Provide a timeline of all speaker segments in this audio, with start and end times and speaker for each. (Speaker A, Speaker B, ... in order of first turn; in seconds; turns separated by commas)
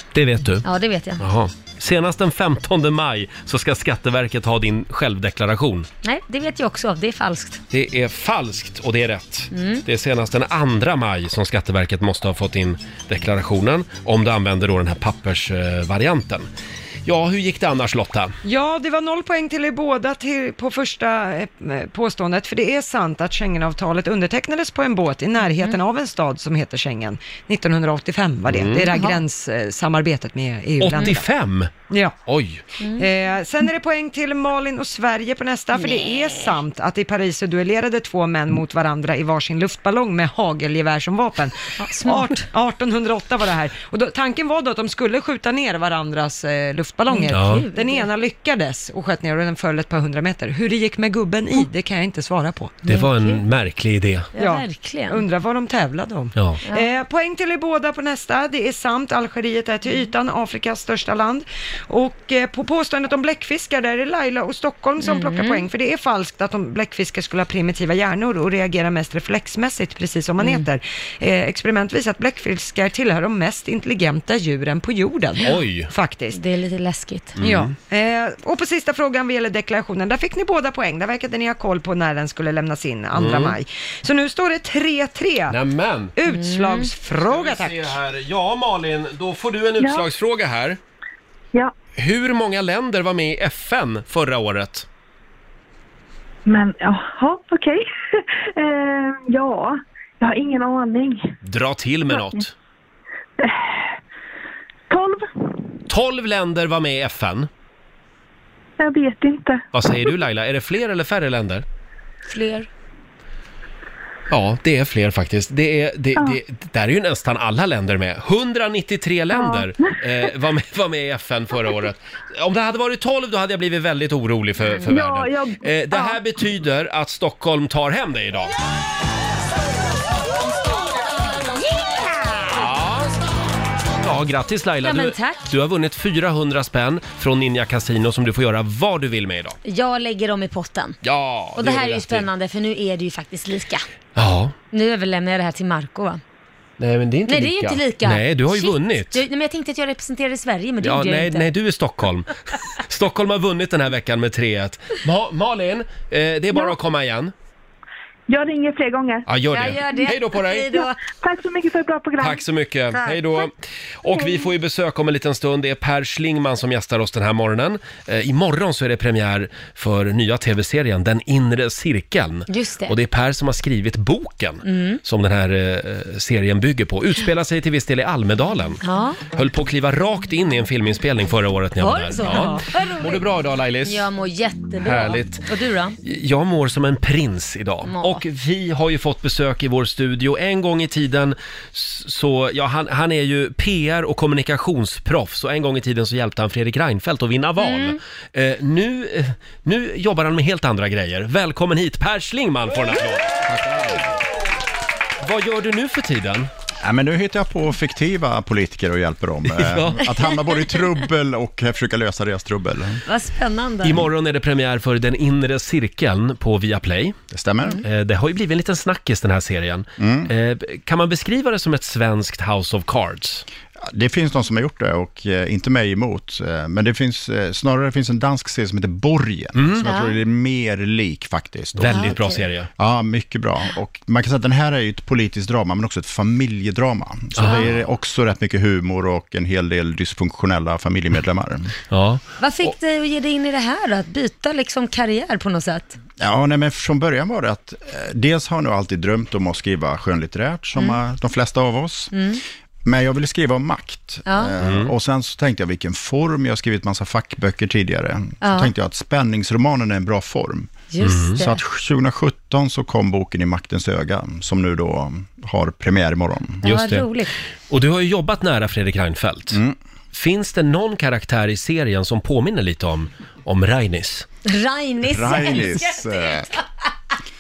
Speaker A: 0.1-0.7, Speaker B: 0.6-1.3, Speaker A: 1.2-5.9, Speaker B: 6.0-7.6, Speaker A: 7.7-16.5, Speaker B: 9.5-9.8, Speaker A: 17.1-18.4, Speaker C: 18.4-31.3, Speaker A: 28.5-28.9, Speaker B: 28.9-29.2, Speaker A: 30.8-31.7, Speaker C: 31.9-32.2, Speaker A: 32.3-32.6, Speaker B: 32.8-33.1, Speaker C: 33.0-52.8, Speaker B: 41.8-42.4, Speaker B: 47.1-48.1, Speaker A: 47.3-47.6, Speaker A: 52.9-54.3, Speaker B: 52.9-53.4, Speaker B: 54.4-55.2, Speaker C: 54.4-76.4, Speaker A: 56.4-56.6, Speaker B: 65.0-65.6, Speaker B: 70.4-70.7, Speaker A: 75.4-75.9, Speaker B: 76.3-77.4, Speaker A: 77.4-77.8, Speaker C: 77.4-85.6, Speaker A: 83.1-83.6, Speaker A: 85.5-86.2, Speaker C: 86.2-88.0, Speaker B: 86.3-86.9, Speaker A: 87.2-90.8, Speaker D: 89.8-90.1, Speaker A: 92.0-94.9, Speaker D: 96.5-101.3, Speaker A: 101.4-102.5, Speaker D: 102.1-102.4, Speaker D: 103.4-103.9, Speaker D: 104.9-105.3, Speaker A: 105.9-107.5, Speaker D: 108.8-109.6, Speaker A: 109.7-111.6, Speaker B: 112.3-112.7, Speaker A: 114.3-128.5, Speaker D: 119.3-120.3, Speaker D: 124.8-126.2, Speaker A: 132.5-133.2, Speaker A: 134.0-139.6, Speaker B: 134.8-135.5, Speaker B: 139.6-141.0, Speaker A: 141.0-142.3, Speaker B: 141.6-143.9, Speaker A: 144.2-144.6, Speaker B: 144.7-146.2, Speaker A: 146.8-149.2, Speaker B: 147.3-151.5, Speaker A: 150.8-157.3, Speaker D: 158.3-159.3, Speaker A: 159.3-160.8, Speaker B: 159.5-161.0, Speaker D: 160.7-162.4, Speaker A: 162.2-184.1, Speaker B: 162.9-163.5, Speaker B: 172.5-173.0, Speaker B: 174.7-175.0, Speaker B: 178.8-179.2, Speaker B: 181.8-183.3, Speaker B: 183.8-186.0, Speaker A: 184.8-185.4, Speaker A: 186.0-204.0, Speaker B: 187.8-188.2, Speaker B: 197.6-198.0, Speaker A: 205.2-206.5, Speaker E: 206.8-213.0, Speaker A: 209.6-210.0, Speaker B: 210.1-210.3, Speaker B: 213.1-214.1, Speaker A: 213.8-217.2, Speaker E: 217.3-217.8, Speaker A: 217.8-223.4, Speaker E: 220.0-220.3, Speaker E: 223.8-241.7, Speaker A: 229.6-229.9, Speaker B: 229.8-230.2, Speaker A: 231.8-232.7, Speaker B: 231.8-232.5, Speaker A: 237.4-237.8, Speaker B: 237.4-237.7, Speaker A: 241.9-242.7, Speaker B: 242.4-246.0, Speaker E: 246.2-252.2, Speaker B: 252.1-252.4, Speaker E: 252.8-260.8, Speaker B: 254.3-254.5, Speaker A: 254.6-254.9, Speaker B: 258.4-258.7, Speaker B: 260.9-261.6, Speaker A: 261.0-261.4, Speaker E: 261.4-266.6, Speaker A: 266.6-267.1, Speaker B: 266.6-267.3, Speaker A: 267.7-269.6, Speaker E: 269.5-269.8, Speaker A: 270.1-274.3, Speaker B: 274.4-276.6, Speaker E: 275.0-276.5